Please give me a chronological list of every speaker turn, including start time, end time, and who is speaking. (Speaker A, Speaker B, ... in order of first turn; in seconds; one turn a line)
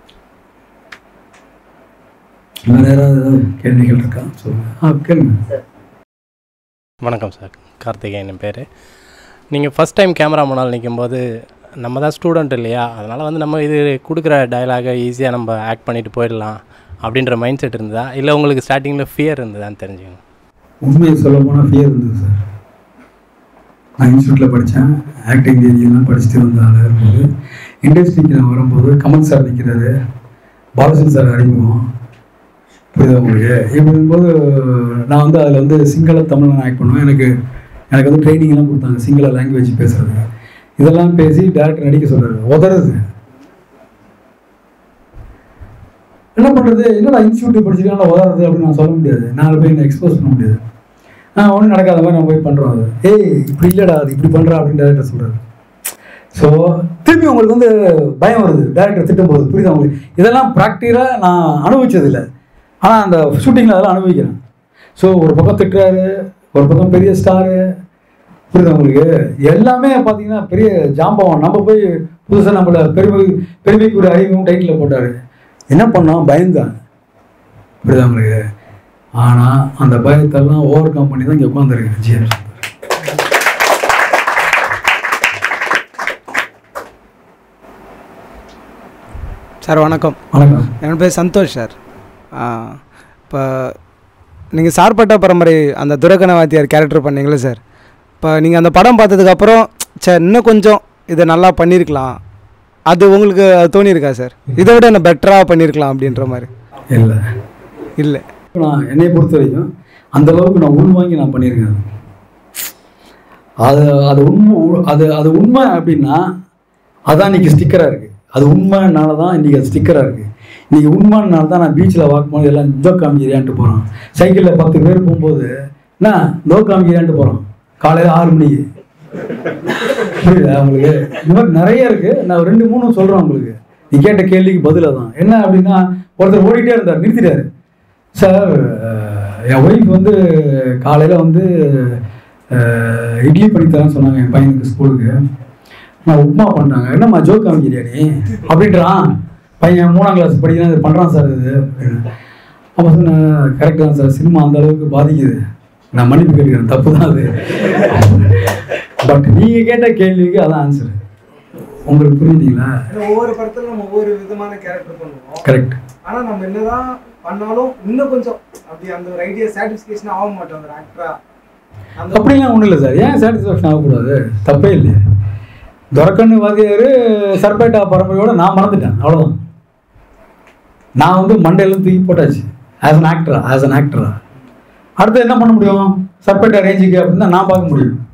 Speaker A: 2.7-5.4
Speaker B: 7.0-8.7
Speaker B: 9.5-11.2
Speaker B: 11.8-20.2
Speaker A: 20.8-22.4
Speaker A: 24.0-27.3
Speaker A: 27.8-29.9
Speaker A: 30.8-31.8
Speaker A: 32.9-37.3
Speaker A: 37.9-40.2
Speaker A: 40.8-43.0
Speaker A: 46.4-50.6
Speaker A: 51.4-55.4
Speaker A: 56.3-62.2
Speaker A: 62.8-64.4
Speaker A: 65.0-67.6
Speaker A: 68.5-75.1
Speaker A: 75.7-76.7
Speaker A: 77.8-78.4
Speaker A: 79.2-82.6
Speaker C: 89.6-90.2
Speaker A: 90.3-90.7
Speaker C: 90.8-91.7
Speaker C: 92.4-92.8
Speaker C: 93.3-93.7
Speaker C: 94.5-97.6
Speaker C: 98.2-102.2
Speaker C: 102.9-106.5
Speaker A: 106.9-107.2
Speaker C: 108.0-108.2
Speaker A: 108.5-111.8
Speaker A: 113.6-116.3
Speaker A: 117.1-125.5
Speaker A: 126.0-128.6
Speaker A: 130.0-137.5
Speaker A: 138.2-142.0
Speaker A: 142.5-145.1
Speaker A: 146.1-152.1
Speaker A: 152.8-155.4
Speaker A: 155.9-158.4
Speaker A: 159.0-161.0
Speaker A: 161.9-162.7
Speaker D: 162.9-165.4
Speaker A: 165.4-165.8
Speaker D: 166.0-171.1
Speaker D: 171.9-172.4
Speaker A: 172.1-175.0
Speaker A: 175.9-179.3
Speaker A: 181.0-184.2
Speaker A: 185.0-188.0